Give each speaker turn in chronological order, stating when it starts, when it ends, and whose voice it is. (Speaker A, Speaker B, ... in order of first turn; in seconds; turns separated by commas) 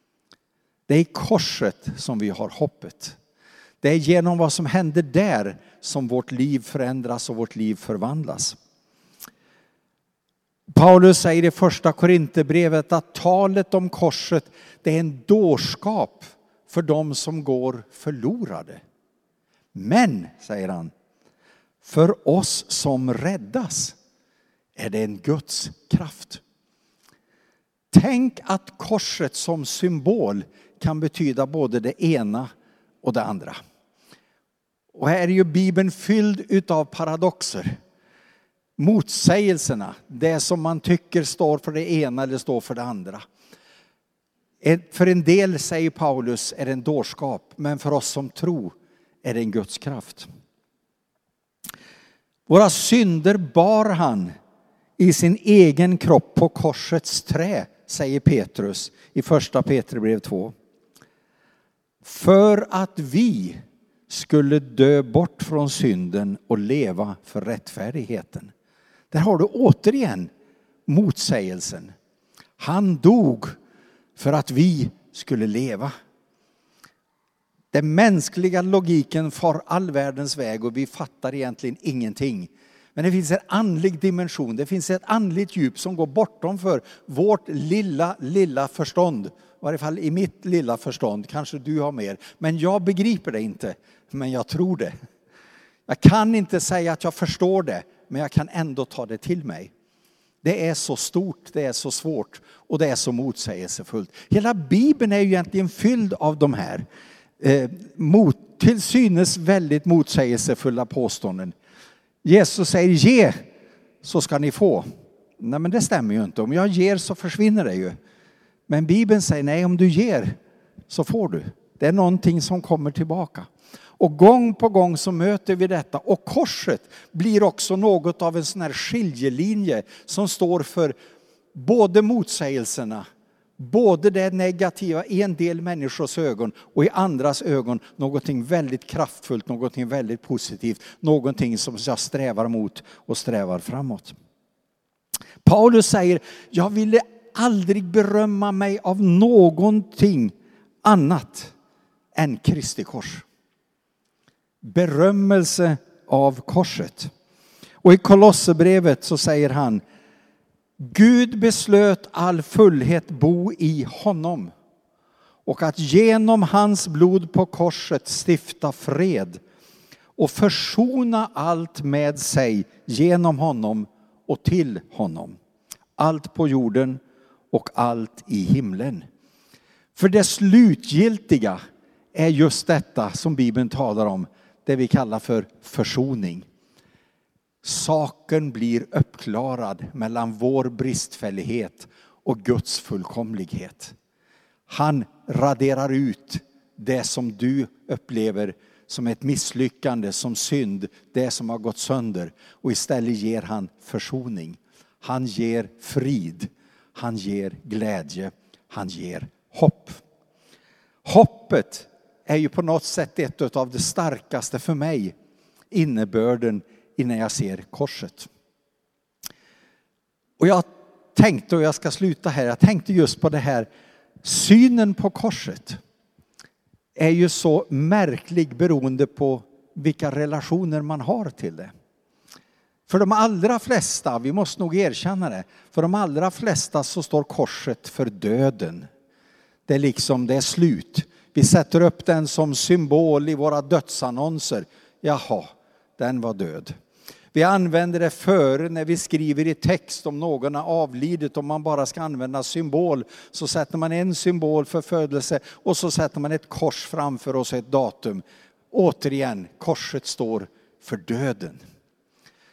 Speaker A: 0.9-3.2, Speaker A: 3.8-8.6, Speaker A: 10.7-18.8, Speaker A: 19.7-20.9, Speaker A: 21.8-24.0, Speaker A: 24.8-26.4, Speaker A: 27.9-32.5, Speaker A: 33.0-33.6, Speaker A: 34.9-37.8, Speaker A: 38.8-43.2, Speaker A: 44.6-50.3, Speaker A: 52.5-54.3, Speaker A: 55.0-60.5, Speaker A: 62.0-68.5, Speaker A: 69.1-70.3, Speaker A: 70.9-71.9, Speaker A: 72.6-73.5, Speaker A: 74.2-75.9, Speaker A: 77.7-94.9, Speaker A: 95.9-99.7, Speaker A: 100.4-106.8, Speaker A: 107.4-111.5, Speaker A: 112.2-113.4, Speaker A: 114.0-114.9, Speaker A: 115.4-118.0, Speaker A: 118.7-120.4, Speaker A: 120.9-130.9, Speaker A: 131.5-133.1, Speaker A: 133.6-144.2, Speaker A: 145.4-151.5, Speaker A: 152.1-153.2, Speaker A: 154.6-157.1, Speaker A: 157.8-159.8, Speaker A: 160.8-164.5, Speaker A: 165.4-169.4, Speaker A: 170.2-175.4, Speaker A: 176.0-179.0, Speaker A: 179.9-181.6, Speaker A: 182.1-186.5, Speaker A: 187.6-193.9, Speaker A: 194.7-210.0, Speaker A: 211.0-215.1, Speaker A: 215.7-218.3, Speaker A: 220.4-223.7, Speaker A: 224.2-225.8, Speaker A: 226.9-231.7, Speaker A: 232.9-238.9, Speaker A: 239.7-246.7, Speaker A: 247.3-261.6